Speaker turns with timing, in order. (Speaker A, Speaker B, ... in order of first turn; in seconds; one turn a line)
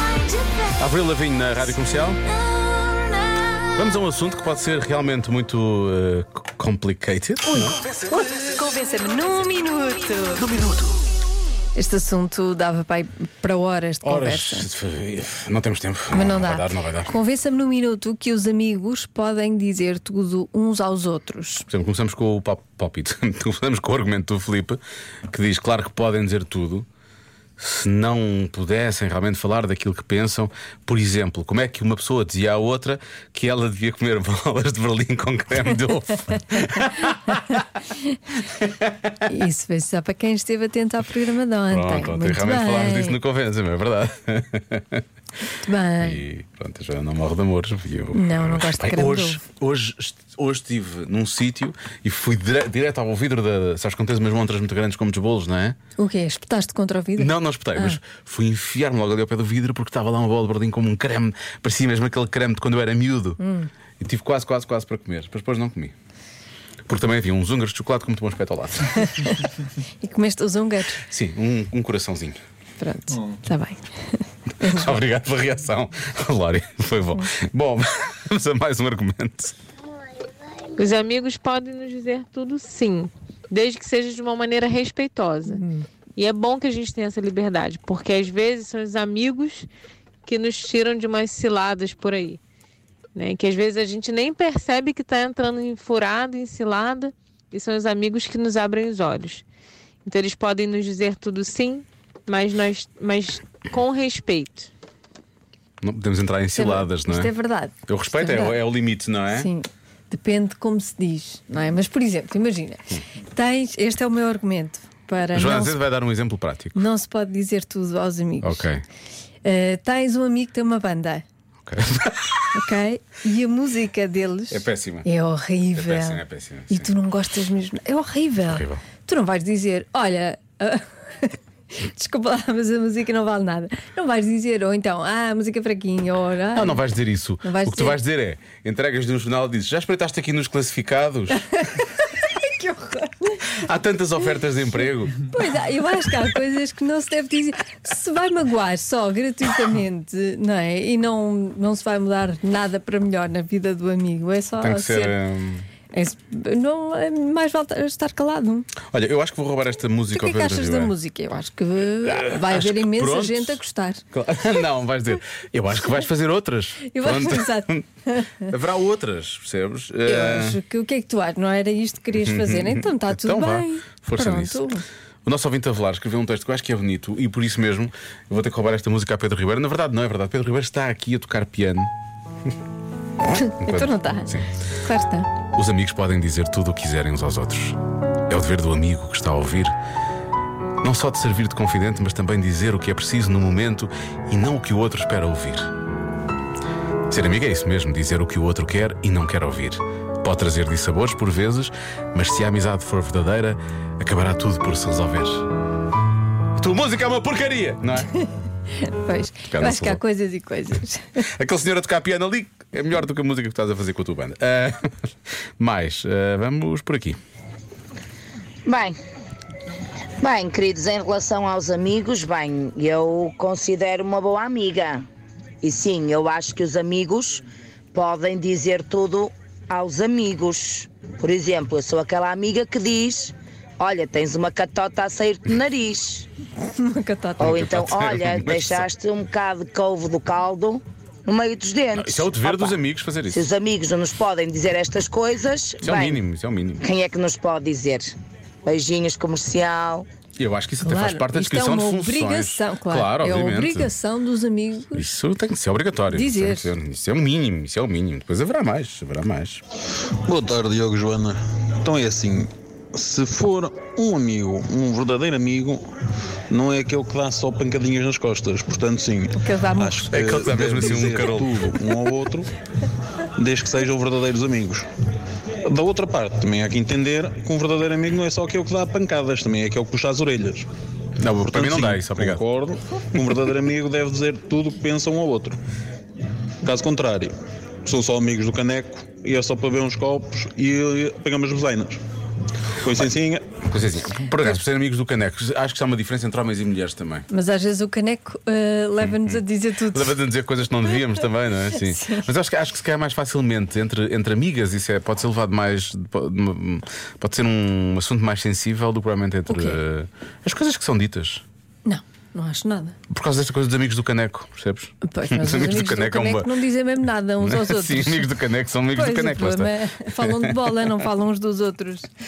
Speaker A: 0.8-2.2
Speaker A: 3.8-7.8
Speaker B: 7.5-10.6
Speaker B: 11.8-14.7
Speaker A: 14.0-17.1
Speaker B: 16.1-21.7
Speaker A: 21.7-26.9
Speaker A: 27.6-37.6
Speaker A: 38.6-38.9
Speaker B: 39.3-43.2
Speaker A: 41.7-45.0
Speaker B: 45.6-46.2
Speaker A: 46.0-55.8
Speaker B: 48.1-49.4
Speaker B: 56.0-58.0
Speaker A: 57.2-63.4
Speaker B: 63.4-63.7
Speaker A: 64.0-65.9
Speaker A: 66.9-69.3
Speaker B: 70.0-71.0
Speaker A: 71.1-72.4
Speaker B: 72.8-75.0
Speaker A: 74.6-79.5
Speaker C: 80.8-85.6
Speaker B: 85.5-85.8
Speaker C: 86.2-89.7
Speaker C: 90.2-92.4
Speaker C: 93.2-99.4
Speaker C: 100.0-104.7
Speaker A: 105.8-107.3
Speaker B: 106.5-108.6
Speaker A: 107.9-109.5
Speaker B: 109.3-115.8
Speaker A: 115.3-116.9
Speaker B: 116.8-118.7
Speaker A: 118.4-118.8
Speaker B: 119.4-121.2
Speaker A: 121.7-122.5
Speaker B: 122.5-136.8
Speaker A: 124.5-125.1
Speaker A: 125.8-126.9
Speaker A: 128.4-128.8
Speaker A: 136.5-141.5
Speaker B: 137.4-138.0
Speaker B: 141.5-143.5
Speaker A: 143.5-145.3
Speaker B: 145.2-155.2
Speaker A: 154.6-155.7
Speaker B: 155.9-158.7
Speaker A: 158.9-160.9
Speaker B: 160.1-164.0
Speaker A: 162.0-167.8
Speaker B: 166.8-168.4
Speaker A: 168.4-170.6
Speaker B: 170.1-174.8
Speaker A: 172.2-174.6
Speaker A: 175.3-181.9
Speaker B: 183.3-185.3
Speaker A: 183.6-184.5
Speaker A: 185.5-187.8
Speaker A: 188.3-189.7
Speaker A: 190.8-195.7
Speaker A: 197.1-205.5
Speaker A: 206.6-208.1
Speaker B: 208.8-211.2
Speaker A: 209.5-210.0
Speaker A: 211.2-214.9
Speaker A: 215.6-217.2
Speaker D: 218.7-219.0
Speaker D: 220.2-225.0
Speaker D: 225.6-227.4
Speaker D: 227.9-236.3
Speaker B: 236.8-237.6
Speaker D: 237.4-242.8
Speaker A: 237.4-238.9
Speaker A: 241.9-243.4
Speaker D: 243.3-246.2
Speaker A: 245.8-246.8
Speaker D: 246.8-250.1
Speaker A: 250.4-253.9
Speaker B: 250.8-255.2
Speaker A: 254.9-259.6
Speaker B: 256.1-256.7
Speaker E: 260.1-265.8
Speaker E: 266.5-272.5
Speaker B: 269.3-270.1
Speaker A: 270.1-271.8
Speaker E: 273.4-274.9
Speaker E: 275.7-280.7
Speaker A: 281.2-282.4
Speaker E: 281.5-285.6
Speaker E: 286.6-287.3
Speaker E: 287.9-292.0
Speaker E: 292.8-293.6
Speaker A: 293.6-297.3
Speaker B: 297.3-300.2
Speaker A: 299.0-311.4
Speaker B: 301.8-302.3
Speaker B: 309.5-309.8
Speaker B: 311.9-313.0
Speaker A: 313.1-316.5
Speaker B: 315.0-318.3
Speaker A: 317.4-320.9
Speaker B: 318.9-322.1